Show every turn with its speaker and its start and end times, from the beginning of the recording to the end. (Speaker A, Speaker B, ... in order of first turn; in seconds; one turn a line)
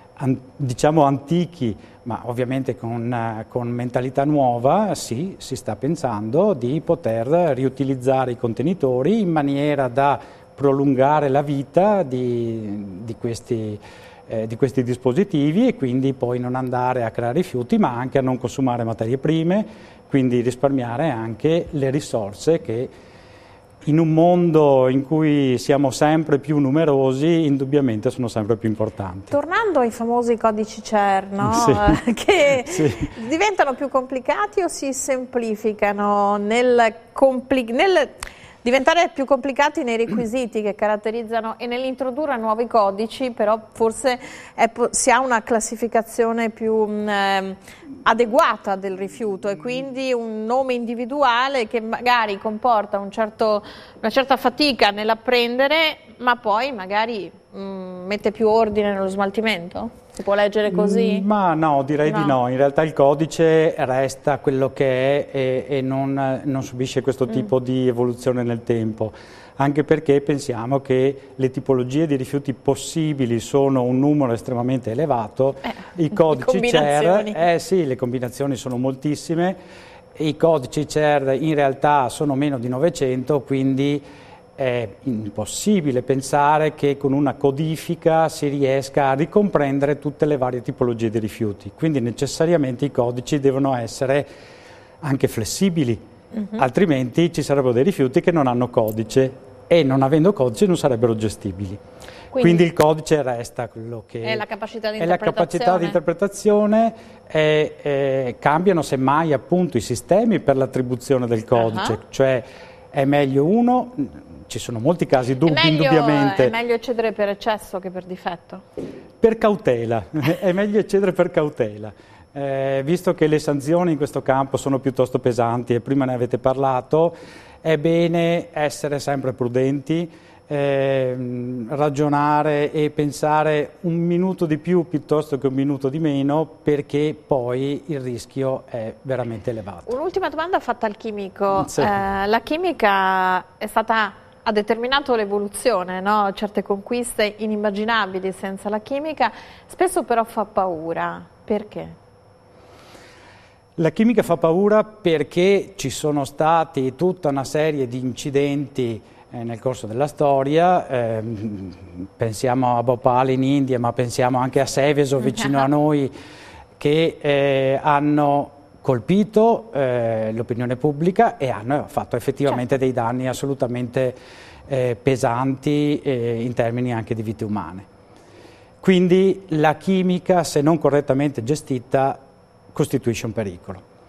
Speaker A: 0.2-22.9
Speaker A: 23.9-29.4
Speaker B: 29.3-61.3
Speaker A: 31.4-32.0
Speaker A: 32.7-33.1
Speaker A: 60.7-79.6
Speaker B: 62.1-62.4
Speaker B: 76.2-77.4
Speaker A: 80.2-84.0
Speaker A: 84.6-94.3
Speaker A: 95.0-96.0
Speaker A: 96.6-101.8
Speaker B: 102.3-102.7
Speaker A: 102.4-104.5
Speaker B: 104.2-106.0
Speaker A: 105.0-116.5
Speaker B: 111.6-112.0
Speaker B: 115.5-118.6
Speaker A: 119.2-139.9
Speaker B: 139.9-152.0
Speaker A: 141.5-142.0
Speaker A: 153.8-166.1
Speaker A: 166.8-174.2
Speaker A: 174.7-177.9
Speaker A: 178.8-182.2
Speaker A: 182.7-183.8